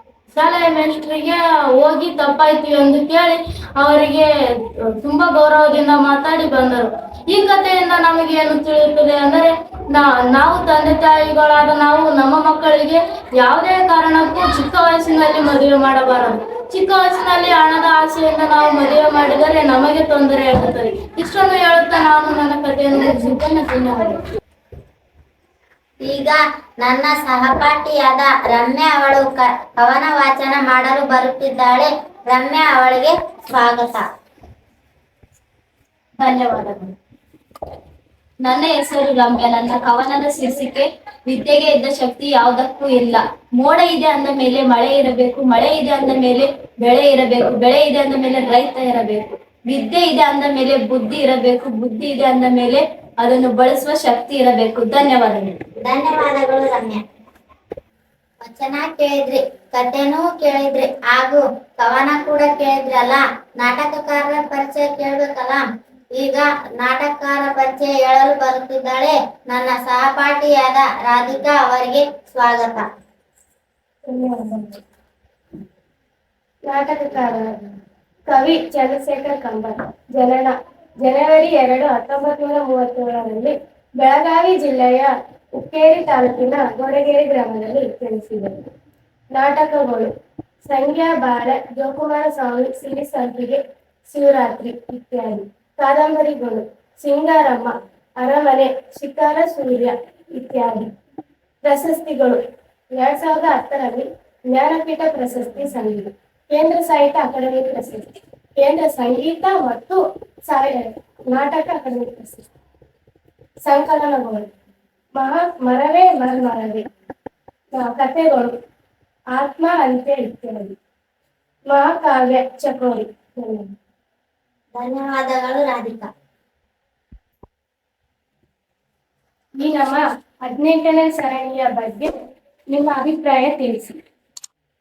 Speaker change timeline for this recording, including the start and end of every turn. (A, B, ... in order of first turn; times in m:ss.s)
0:00.3-0:24.2 A
0:26.0-0:34.0 B
0:36.2-0:36.8 C
0:38.4-0:55.6 C
0:55.8-0:57.0 B
0:58.4-1:05.6 B
1:06.1-1:12.8 B
1:14.1-1:14.7 D
1:16.7-1:17.5 D
1:18.3-1:28.6 D
1:29.3-1:30.1 D
1:30.6-1:40.9 D
1:41.6-1:42.4 D
1:42.9-1:52.4 D
1:53.6-1:54.5 D
1:55.2-1:56.8 D
1:57.7-1:58.5 D
1:59.3-2:00.7 D
2:01.7-2:03.6 D
2:04.7-2:06.1 B
2:09.6-2:12.1 D
2:12.7-2:13.9 D